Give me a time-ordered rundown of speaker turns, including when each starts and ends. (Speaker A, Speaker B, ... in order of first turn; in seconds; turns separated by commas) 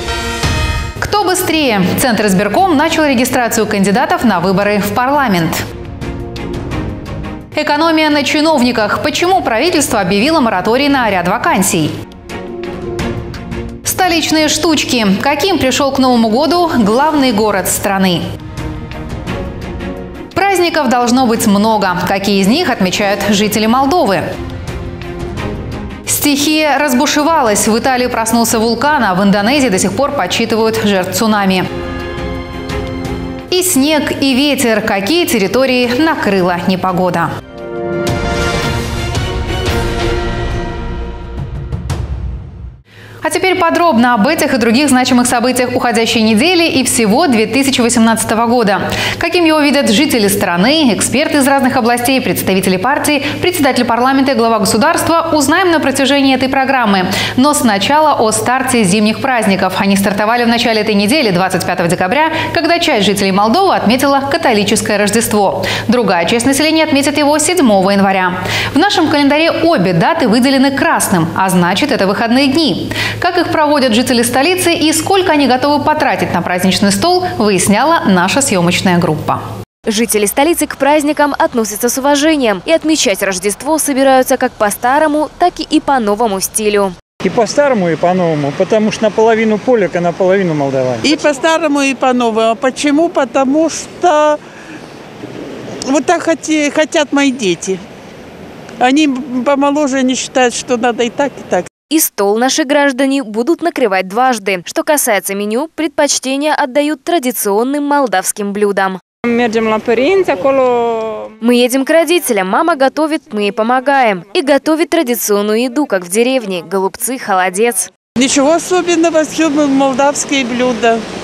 Speaker A: 1.0-5.6, Speaker A: 7.5-11.9, Speaker A: 13.8-18.2, Speaker A: 20.3-24.2, Speaker A: 26.1-31.6, Speaker A: 33.5-37.3, Speaker A: 43.2-79.4, Speaker B: 79.8-86.9, Speaker C: 87.2-91.2, Speaker D: 91.0-94.4, Speaker D: 95.9-97.8, Speaker D: 98.8-101.7, Speaker B: 101.9-109.0, Speaker D: 109.3-111.3, Speaker B: 111.4-117.9, Speaker D: 118.2-121.0